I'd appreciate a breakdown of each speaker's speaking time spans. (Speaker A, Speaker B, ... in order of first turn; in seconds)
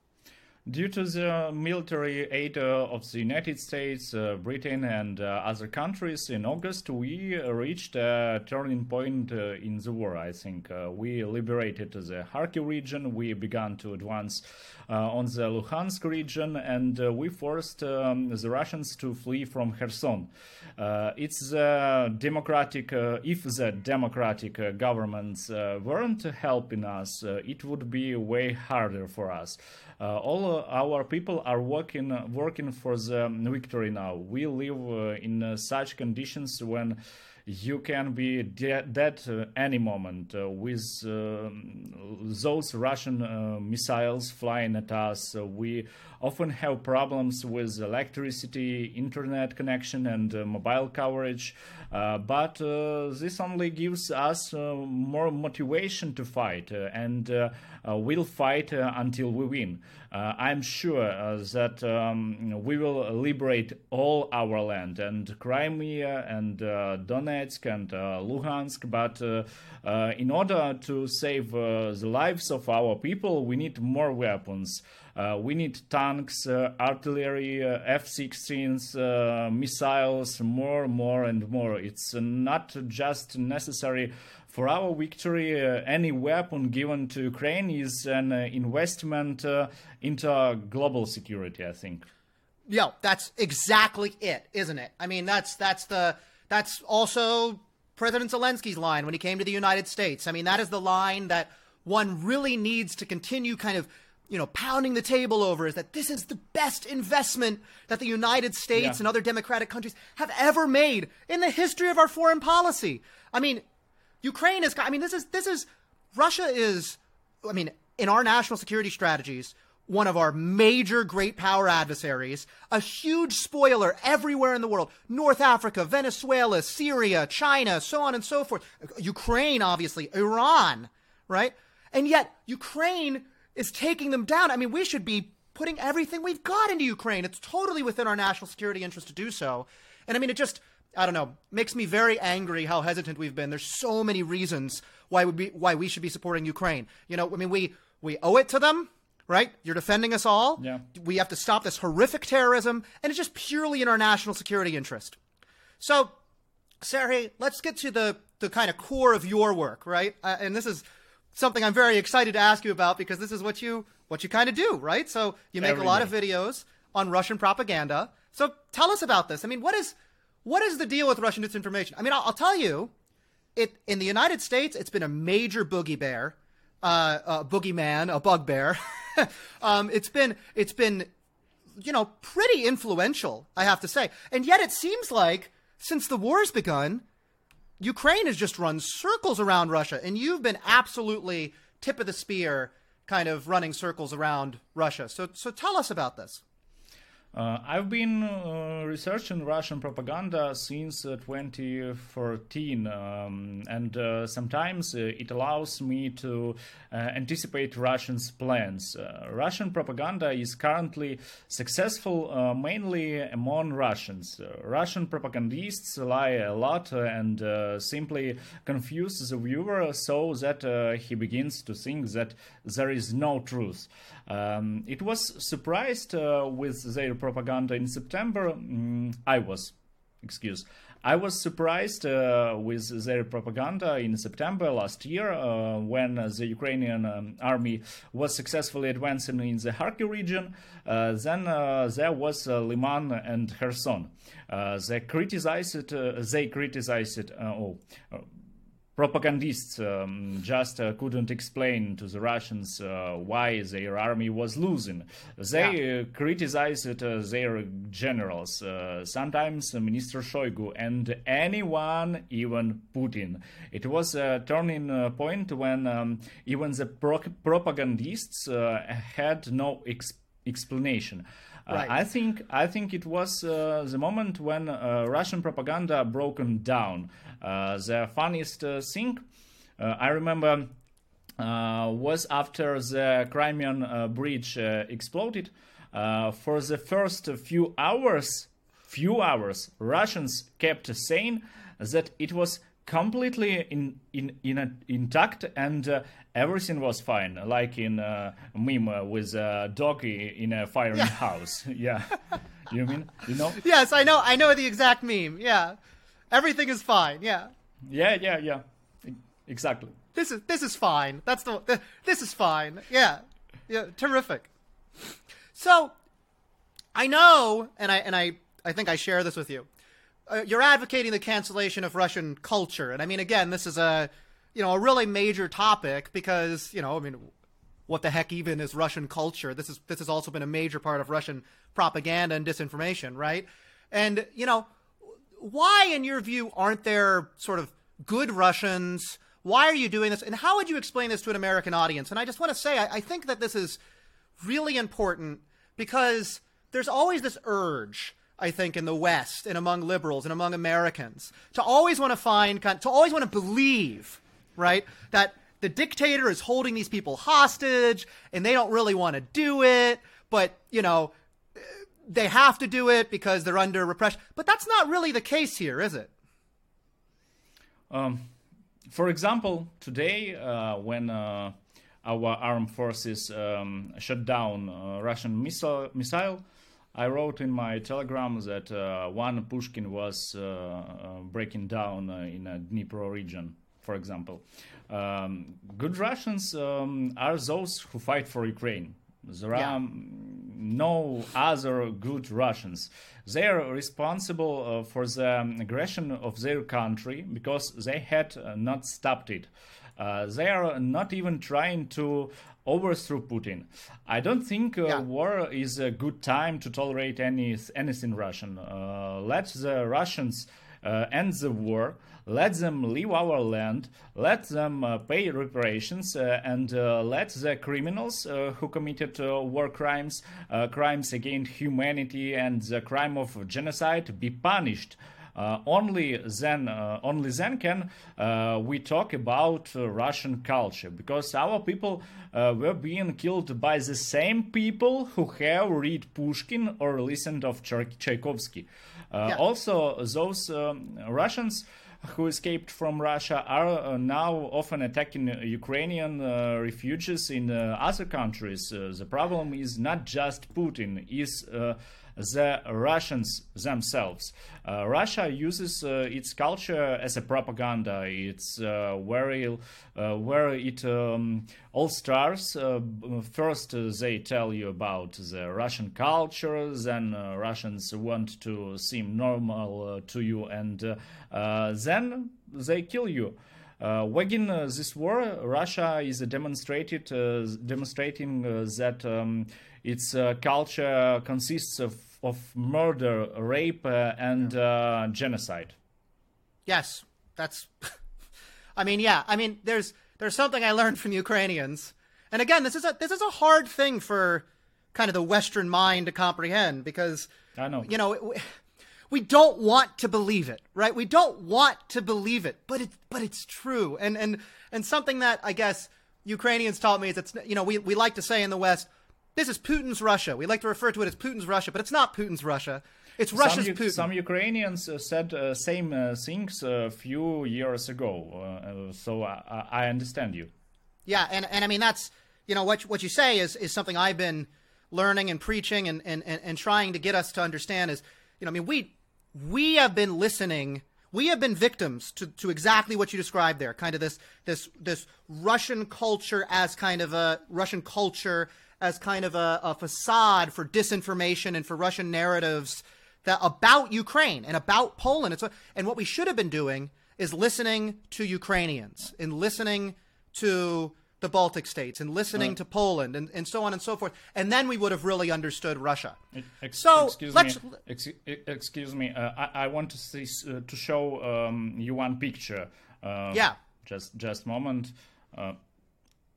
Speaker A: 0.7-92.0, 108.7-109.0, 150.6-150.8, 165.6-166.1, 197.3-248.3, 248.9-279.2, 279.8-280.7, 281.4-303.6, 307.9-309.9, 367.9-368.3, 368.9-376.4, 376.9-485.7, 497.6-497.9, 513.3-520.5, 556.3-565.6
Speaker B: 92.7-113.6, 114.2-155.2, 155.8-156.1, 156.8-160.8, 161.3-172.9, 173.6-181.1, 181.8-187.0, 187.8-196.4, 303.6-305.8, 306.3-307.5, 310.1-314.5, 315.5-315.9, 316.9-319.7, 320.3-327.3, 327.9-334.7, 335.4-343.8, 344.4-366.1, 486.6-487.9, 488.8-497.3, 497.8-498.4, 499.1-514.0, 521.1-556.2, 556.7-557.8